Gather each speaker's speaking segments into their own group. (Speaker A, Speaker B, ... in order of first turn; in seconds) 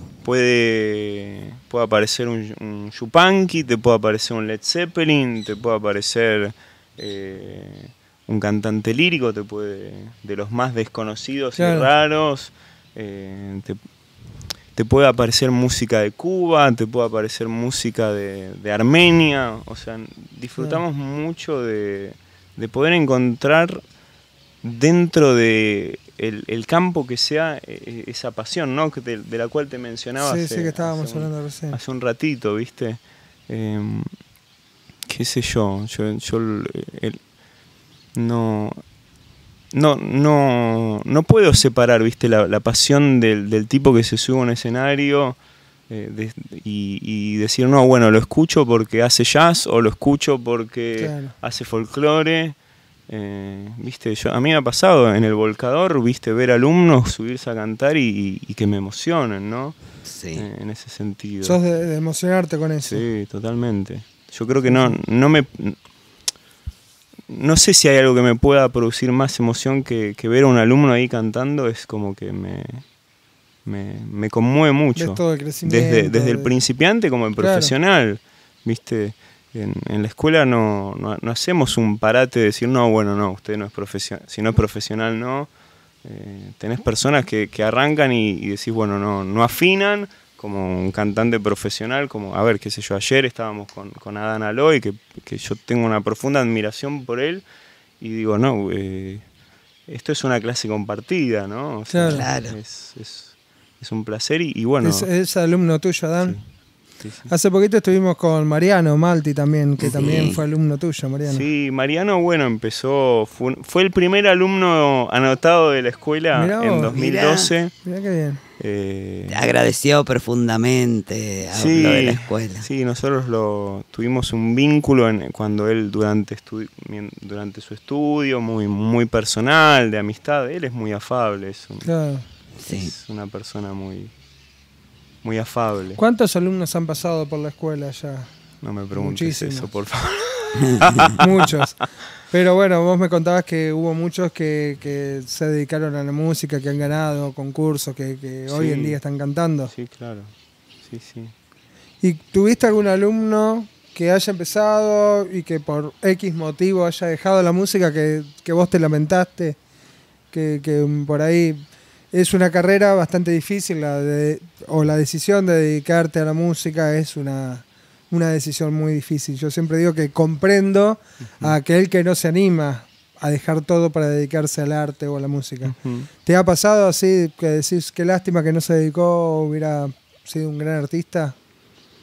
Speaker A: 0.2-13.8, 14.8-23.8, 24.6-34.1, 35.1-37.2, 38.1-38.8, 39.7-45.4, 45.9-52.5, 53.1-59.8, 60.3-61.6, 62.8-65.8, 67.3-72.8, 73.6-85.5, 86.0-97.4, 98.0-99.2, 99.9-105.1, 107.0-107.3, 111.2-117.7, 118.6-119.4, 121.5-131.9, 132.7-134.1, 135.2-136.0, 138.6-141.5, 148.5-149.0, 149.7-150.3, 150.8-151.3, 175.6-176.1
Speaker B: 11.6-11.9, 30.2-31.8, 51.0-51.3, 61.4-63.0, 64.7-65.0, 75.0-76.5, 77.4-77.7, 101.9-102.3, 104.8-106.4, 107.3-111.4, 116.3-117.0, 117.8-118.4, 131.8-132.2, 136.0-138.3, 138.9-139.7, 141.2-149.7, 152.0-159.6, 160.3-181.3
Speaker C: 60.1-60.5, 102.0-102.5, 109.8-110.4, 116.9-117.5, 119.3-122.7, 132.6-132.9, 140.6-141.1